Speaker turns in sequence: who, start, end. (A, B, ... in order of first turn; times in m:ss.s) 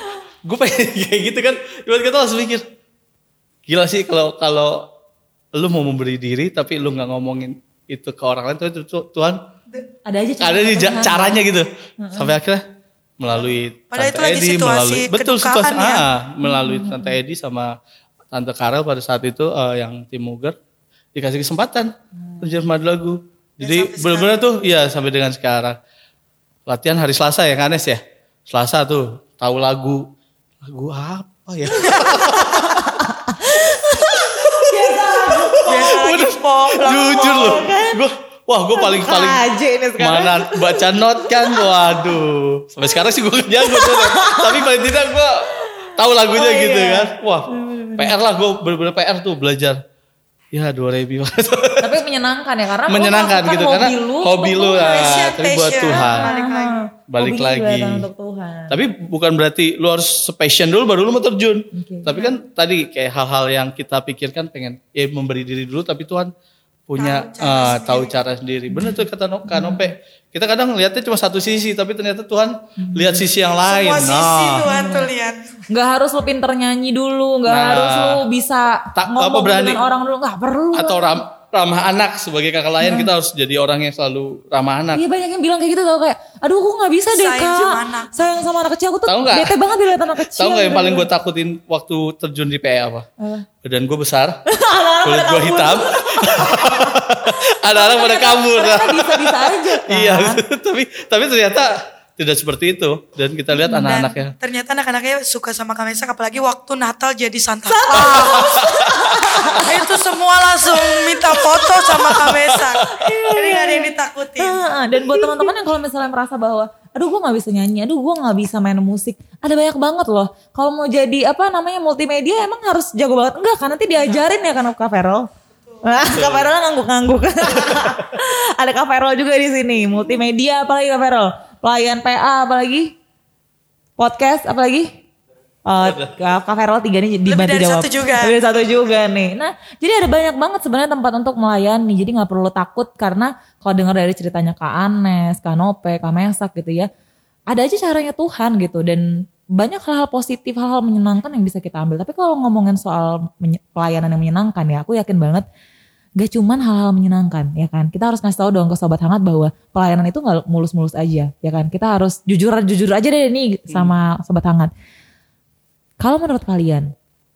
0:00.4-0:02.6 A
0:03.7-0:04.9 A
0:05.5-0:09.4 A
0:10.0-0:11.4 B
0:10.4-0:12.6 A
0:12.0-0:12.3 B
0:13.2-0:17.7 A
0:13.3-0:16.0 C
0:16.4-0:17.2 B
0:18.3-0:20.6 A
0:21.1-0:25.8 A
0:22.2-0:22.6 B
0:23.6-0:24.4 C
0:26.6-0:30.0 A
0:30.6-0:32.9 A
0:31.9-0:32.3 C
0:32.4-0:35.9 B
0:33.5-0:39.4 A
0:35.6-0:37.6 C
0:36.9-0:38.0 B
0:38.8-0:41.7 B
0:40.0-0:49.8 A
0:43.6-0:44.7 B
0:45.6-0:48.1 B
0:50.5-0:52.0 A
0:51.8-0:55.2 B
0:52.9-0:56.3 A
0:54.7-0:56.8 C
0:55.8-0:58.8 B
0:57.1-0:58.1 A
0:58.7-1:06.3 A
1:01.7-1:02.1 B
1:06.9-1:14.7 A
1:07.0-1:08.2 C
1:08.7-1:09.9 B
1:12.8-1:13.3 B
1:13.6-1:15.4 C
1:14.6-1:15.1 B
1:15.7-1:21.2 B
1:17.5-1:18.2 A
1:19.0-1:19.8 A
1:20.7-1:25.0 A
1:22.8-1:23.1 B
1:24.9-1:31.1 B
1:27.1-1:28.4 C
1:29.1-1:29.6 A
1:30.2-1:33.1 A
1:33.6-1:34.4 A
1:34.5-1:37.0 B
1:35.0-1:44.3 A
1:37.7-1:40.4 B
1:43.6-1:44.0 B
1:43.7-1:48.7 C
1:47.8-1:49.7 B
1:48.0-1:49.6 A
1:49.4-1:54.6 C
1:51.3-1:52.1 B
1:51.9-1:52.7 A
1:52.9-2:05.3 B
2:04.0-2:04.2 C
2:05.8-2:12.9 B
2:06.0-2:06.5 A
2:07.6-2:08.0 A
2:14.0-2:14.9 B
2:15.7-2:26.9 B
2:15.8-2:16.1 A
2:17.3-2:19.0 C
2:27.5-2:29.0 B
2:29.6-2:35.4 B
2:36.2-2:44.7 B
2:46.0-2:46.9 B